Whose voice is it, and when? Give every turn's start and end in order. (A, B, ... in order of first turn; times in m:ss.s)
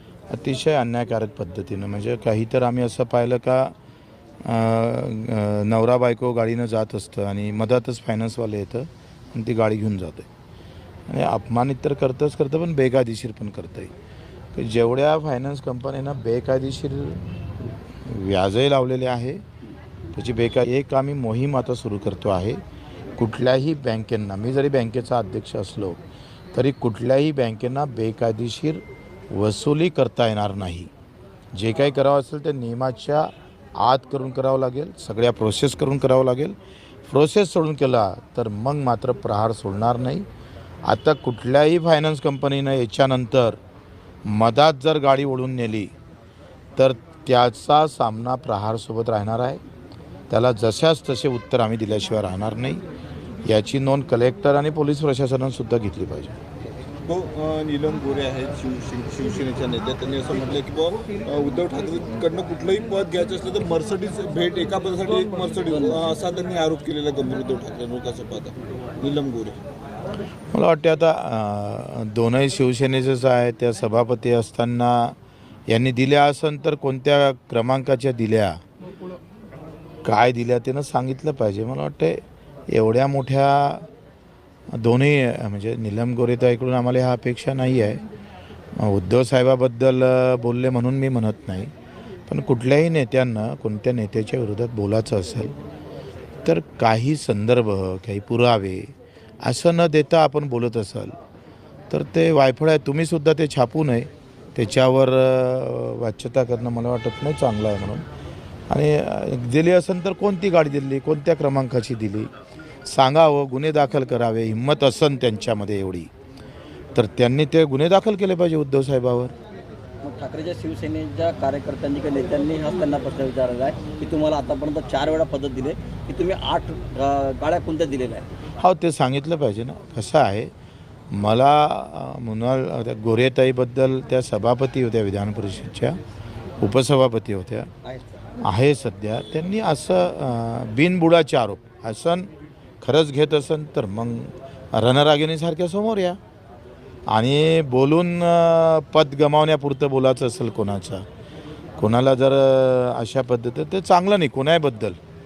0:00.3-0:03.7 A
0:04.4-0:10.3 A
0:11.1-0:13.9 A
0:14.6-0:19.4 A
0:20.1-0:22.6 A
0:23.2-0:26.0 A
0:26.5-0:30.9 A
0:31.5-0:40.3 A
0:40.9-0:43.6 A
0:44.3-0:45.9 A
0:46.8-0:49.6 A
0:50.3-0:52.8 A
0:53.4-0:56.4 A
0:57.1-1:09.6 B
1:10.5-1:15.2 A
1:15.7-1:18.6 A
1:20.0-1:23.9 A
1:24.7-1:28.0 A
1:28.8-1:31.7 A
1:32.3-1:35.6 A
1:36.4-1:38.9 A
1:39.4-1:41.2 A
1:41.9-1:48.1 A
1:48.7-1:52.3 A
1:52.9-1:56.1 A
1:57.0-1:59.3 A
2:00.0-2:08.3 C
2:08.6-2:10.5 A
2:11.1-2:16.0 A
2:16.6-2:17.7 A
2:17.8-2:18.2 C
2:18.4-2:22.3 A
2:22.8-2:26.2 A
2:27.1-2:31.0 A
2:31.8-2:35.0 A